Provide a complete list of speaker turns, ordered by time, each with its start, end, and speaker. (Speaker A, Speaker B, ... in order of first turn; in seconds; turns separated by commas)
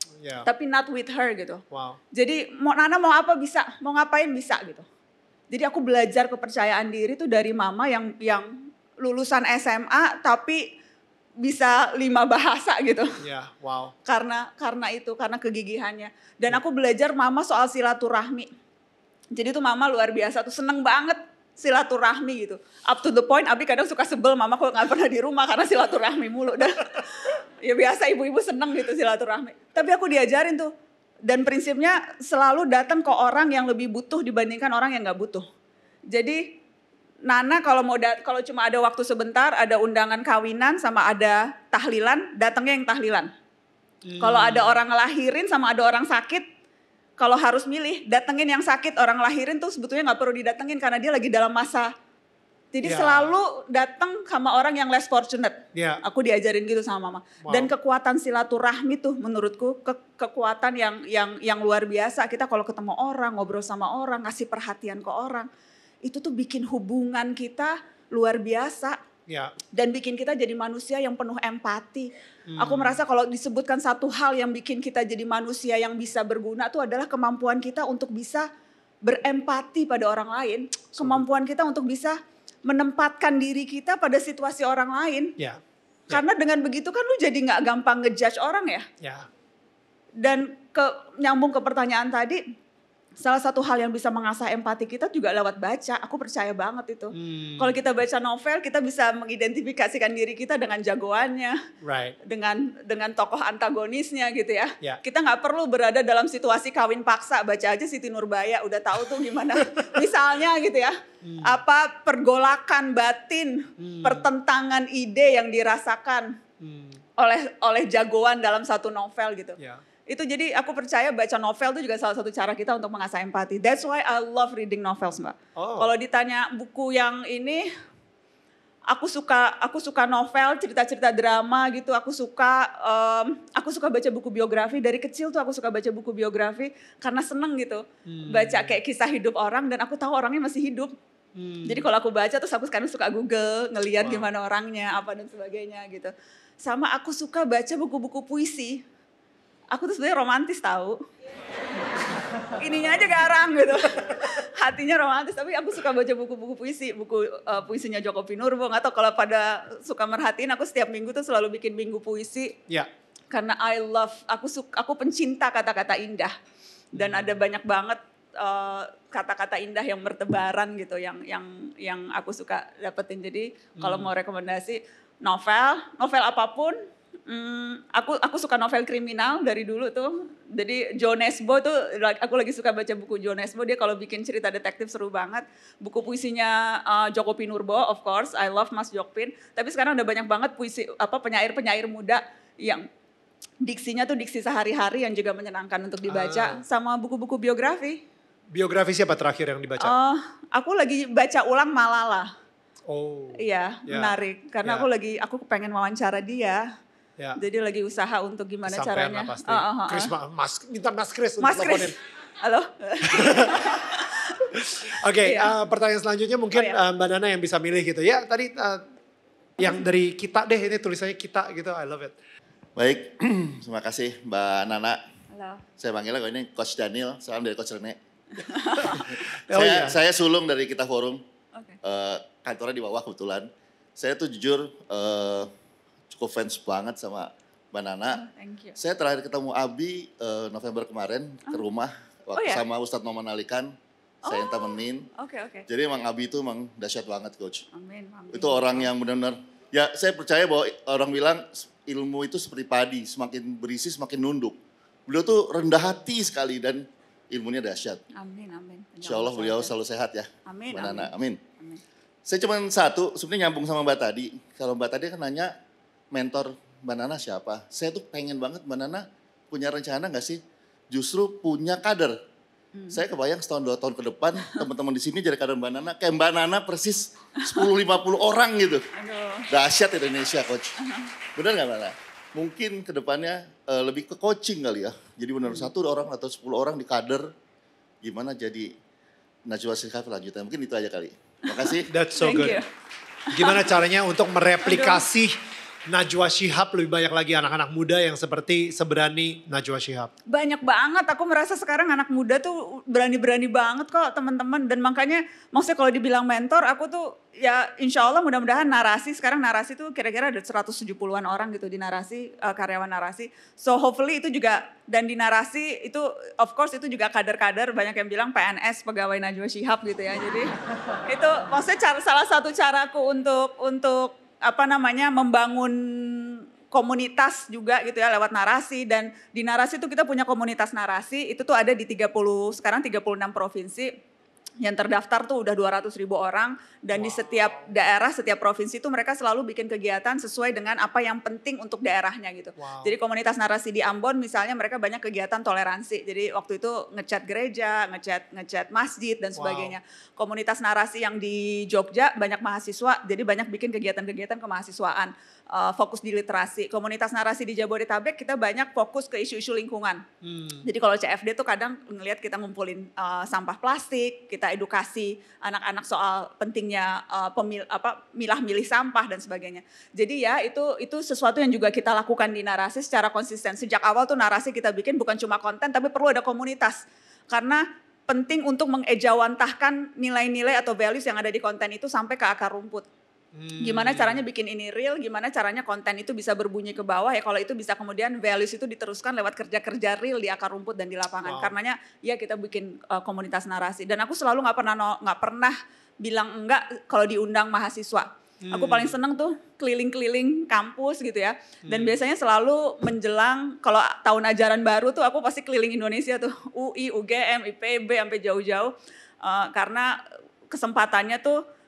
Speaker A: 0.2-0.5, Speaker B: 0.4-1.6, Speaker A: 1.7-2.0, Speaker B: 2.1-4.8, Speaker B: 5.5-8.5, Speaker B: 9.0-10.7, Speaker B: 11.4-13.1, Speaker A: 13.2-13.9, Speaker B: 14.1-18.5, Speaker B: 19.3-30.7, Speaker B: 31.3-35.4, Speaker B: 36.1-36.6, Speaker B: 37.2-43.3, Speaker A: 44.0-44.8, Speaker B: 44.2-46.4, Speaker B: 47.2-51.9, Speaker B: 52.7-65.5, Speaker A: 52.8-53.3, Speaker A: 55.7-56.0, Speaker A: 57.4-57.7, Speaker B: 66.0-69.0, Speaker A: 69.3-69.5, Speaker B: 69.7-78.5, Speaker A: 72.5-73.0, Speaker B: 79.0-85.3, Speaker A: 81.0-81.2, Speaker A: 85.4-86.2, Speaker B: 86.1-88.9, Speaker A: 89.0-89.3, Speaker B: 90.2-92.4, Speaker B: 93.2-101.6, Speaker A: 97.1-97.7, Speaker A: 101.8-102.2, Speaker B: 102.2-116.3, Speaker A: 109.6-110.0, Speaker A: 111.2-111.6, Speaker A: 113.8-114.3, Speaker A: 116.6-117.0, Speaker B: 117.2-127.7, Speaker A: 125.5-125.9, Speaker B: 128.9-140.9, Speaker A: 138.1-138.8, Speaker A: 141.3-141.8, Speaker B: 141.6-148.8, Speaker A: 144.0-144.3, Speaker B: 149.7-151.0, Speaker B: 152.6-162.6, Speaker B: 163.3-166.3, Speaker B: 166.9-176.8, Speaker A: 166.9-167.4, Speaker A: 173.8-174.1, Speaker B: 177.3-192.8, Speaker B: 193.6-198.0, Speaker A: 196.1-196.6, Speaker A: 198.5-199.9, Speaker B: 199.8-202.3, Speaker A: 202.9-204.9, Speaker B: 203.3-206.6, Speaker B: 207.4-210.1, Speaker A: 208.6-211.9, Speaker B: 211.4-214.4, Speaker A: 213.1-213.8, Speaker A: 214.4-218.8, Speaker B: 215.2-215.5, Speaker A: 219.6-222.2, Speaker C: 222.8-225.0, Speaker B: 225.3-225.6, Speaker C: 225.8-228.0, Speaker B: 228.4-229.1, Speaker A: 228.8-230.0, Speaker C: 228.9-231.2, Speaker C: 231.8-235.5, Speaker C: 236.1-238.2, Speaker B: 238.1-238.8, Speaker C: 238.8-243.7, Speaker B: 242.3-242.6, Speaker C: 244.2-245.1, Speaker B: 244.2-245.7, Speaker C: 245.7-247.7, Speaker B: 247.7-248.9, Speaker C: 248.3-258.0, Speaker B: 258.1-259.7, Speaker C: 259.0-261.4, Speaker B: 260.4-261.8, Speaker C: 262.2-265.5, Speaker C: 266.1-270.4, Speaker C: 270.9-272.2, Speaker C: 272.9-278.9, Speaker B: 277.4-277.7, Speaker B: 278.9-279.5, Speaker C: 279.5-280.7, Speaker B: 280.8-281.1, Speaker C: 281.3-287.3, Speaker C: 288.0-288.7, Speaker C: 289.5-291.9, Speaker A: 291.9-292.6, Speaker B: 292.1-292.6, Speaker B: 293.3-293.6, Speaker A: 293.3-295.3, Speaker B: 294.6-295.0, Speaker A: 295.9-300.1, Speaker B: 300.3-320.5, Speaker B: 321.0-333.9, Speaker B: 334.6-360.0, Speaker A: 336.9-337.7, Speaker A: 342.6-342.9, Speaker A: 349.4-349.8, Speaker A: 360.2-360.6, Speaker B: 360.6-382.9, Speaker A: 383.3-384.2, Speaker B: 383.6-410.0, Speaker A: 391.2-391.5, Speaker A: 398.4-399.0, Speaker A: 401.6-401.9, Speaker B: 410.5-411.4